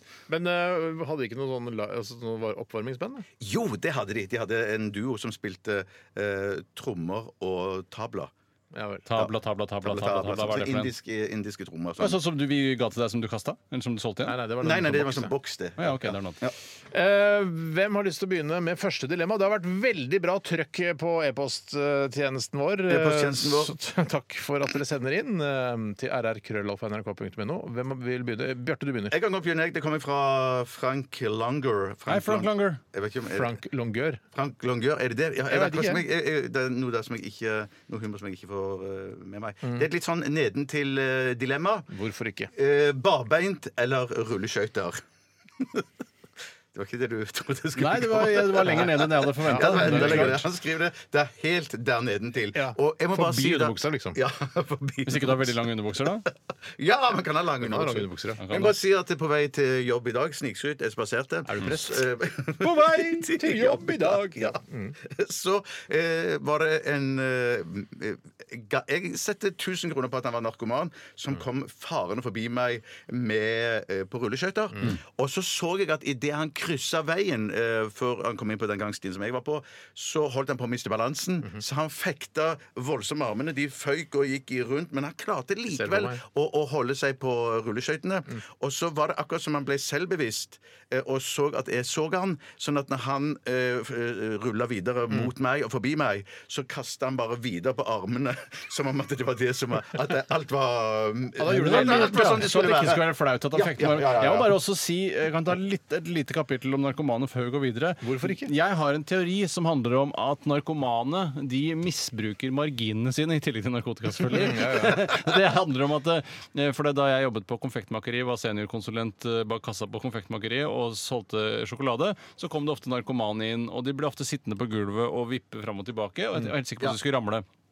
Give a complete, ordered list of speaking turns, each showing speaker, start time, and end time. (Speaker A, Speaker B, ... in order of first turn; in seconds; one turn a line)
Speaker A: 0.3-3.2
Speaker B: 3.4-8.3
Speaker A: 8.7-9.0
Speaker C: 9.1-10.9
Speaker B: 9.2-12.2
Speaker C: 12.0-14.4
Speaker A: 14.2-15.3
Speaker B: 14.6-16.5
Speaker C: 15.8-16.4
Speaker A: 16.9-29.2
Speaker B: 22.9-23.7
Speaker B: 29.1-33.5
Speaker C: 32.1-32.8
Speaker A: 33.3-34.2
Speaker B: 34.3-41.9
Speaker A: 35.5-36.0
Speaker A: 41.9-42.5
Speaker B: 42.5-45.0
Speaker B: 45.6-45.9
Speaker B: 46.7-55.6
Speaker C: 47.8-50.4
Speaker A: 49.4-50.4
Speaker A: 52.5-54.2
Speaker C: 55.0-56.2
Speaker B: 56.6-104.5
Speaker A: 57.6-58.4
Speaker C: 58.4-58.7
Speaker A: 61.5-62.0
Speaker A: 62.6-65.0
Speaker A: 85.7-86.2
Speaker A: 101.4-102.5
Speaker C: 101.5-127.4
Speaker A: 108.0-108.5
Speaker A: 114.3-115.0